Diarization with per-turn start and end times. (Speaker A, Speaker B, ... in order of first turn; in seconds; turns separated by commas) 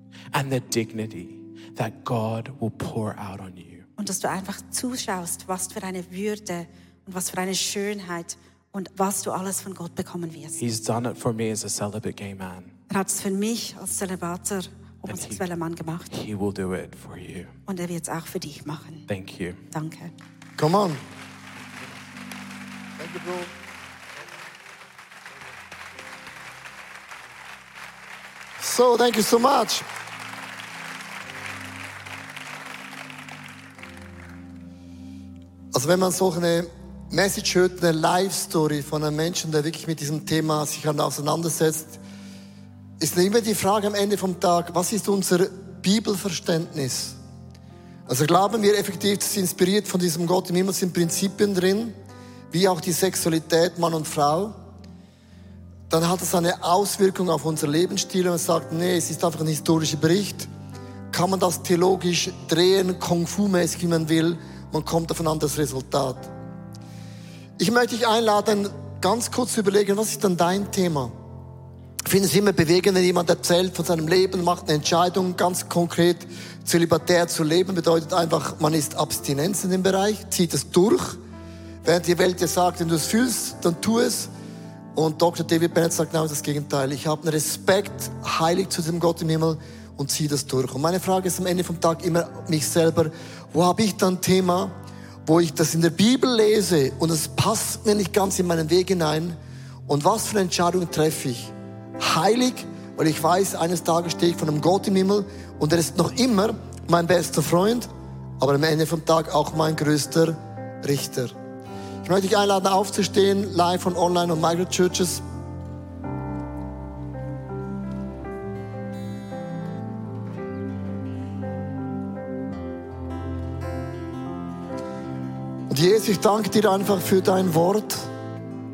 Speaker A: 0.3-3.9, Speaker B: 4.0-10.6, Speaker A: 10.6-12.7, Speaker B: 12.9-16.1, Speaker A: 15.1-15.4, Speaker A: 16.1-17.5, Speaker B: 17.7-19.1, Speaker A: 19.1-19.6, Speaker B: 19.7-20.1, Speaker C: 20.6-21.0, Speaker C: 23.0-23.5, Speaker C: 28.6-29.8, Speaker C: 35.7-42.0, Speaker C: 43.0-47.2, Speaker C: 48.1-51.9, Speaker C: 52.5-54.5, Speaker C: 55.9-60.5, Speaker C: 61.1-66.3, Speaker C: 67.6-71.1, Speaker C: 72.0-81.2, Speaker C: 81.8-84.3, Speaker C: 84.9-94.7, Speaker C: 95.2-99.4, Speaker C: 99.9-107.9, Speaker C: 108.4-111.3, Speaker C: 112.0-115.2, Speaker C: 125.7-128.1